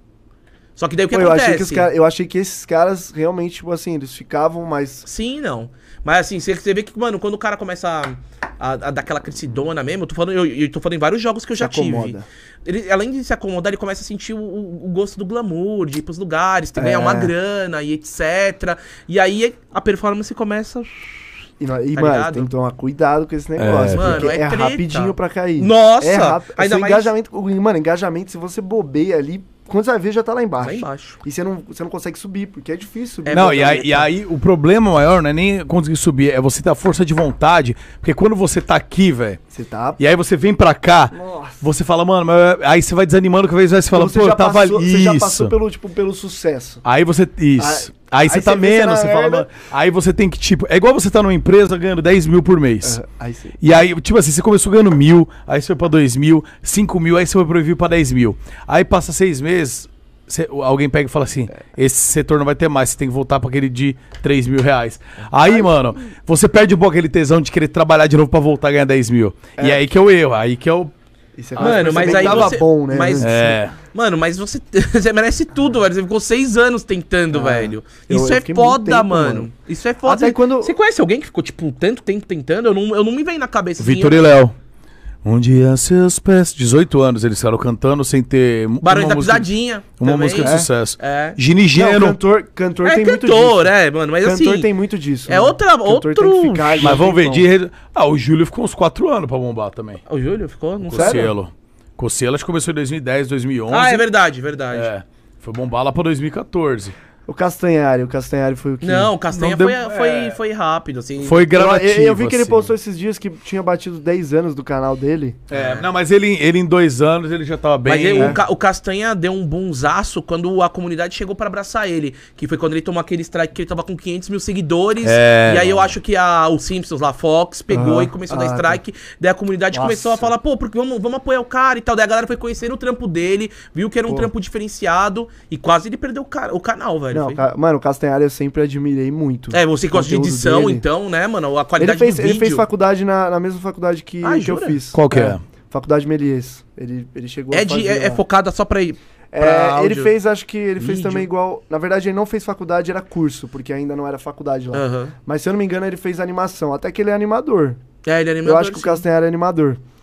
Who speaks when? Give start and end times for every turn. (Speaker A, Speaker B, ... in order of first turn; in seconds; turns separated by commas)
Speaker A: 0.8-1.9, Speaker B: 1.1-5.0, Speaker A: 5.0-21.3, Speaker B: 11.6-12.2, Speaker B: 16.8-17.3, Speaker B: 21.6-34.1, Speaker A: 21.9-22.5, Speaker C: 23.6-24.3, Speaker A: 23.9-27.1, Speaker A: 30.6-31.2, Speaker A: 33.3-34.0, Speaker C: 33.3-39.4, Speaker B: 39.5-40.0, Speaker C: 40.0-45.6, Speaker B: 41.1-41.7, Speaker B: 43.9-46.8, Speaker C: 46.9-53.0, Speaker B: 47.6-49.5, Speaker B: 52.8-53.6, Speaker C: 53.6-70.9, Speaker B: 65.4-65.8, Speaker B: 69.6-69.8, Speaker B: 71.4-73.6, Speaker C: 71.6-72.6, Speaker A: 71.6-84.4, Speaker C: 73.2-73.8, Speaker B: 77.3-79.5, Speaker B: 80.1-80.8, Speaker C: 83.8-84.5, Speaker C: 85.2-89.5, Speaker A: 88.8-91.4, Speaker C: 90.0-92.2, Speaker B: 90.4-90.7, Speaker B: 91.8-97.5, Speaker A: 92.8-94.7, Speaker A: 95.3-97.0, Speaker C: 96.8-100.0, Speaker A: 100.1-101.3, Speaker C: 100.8-104.0, Speaker B: 101.0-101.3, Speaker A: 103.7-104.9, Speaker C: 104.7-107.0, Speaker B: 107.3-109.1, Speaker A: 108.8-111.5, Speaker C: 109.3-110.4, Speaker C: 111.2-112.7, Speaker B: 111.5-115.4, Speaker C: 115.5-118.4, Speaker A: 115.5-115.9, Speaker A: 117.9-137.4, Speaker B: 118.2-118.4, Speaker C: 125.0-126.0, Speaker B: 127.7-128.8, Speaker B: 129.7-130.3, Speaker B: 137.1-140.8, Speaker A: 139.5-142.7, Speaker B: 141.8-148.2, Speaker A: 144.2-144.8, Speaker C: 144.9-145.4, Speaker A: 147.5-150.1, Speaker B: 149.3-157.8, Speaker A: 150.8-151.3, Speaker A: 154.7-155.1, Speaker A: 158.1-159.0, Speaker B: 158.4-159.8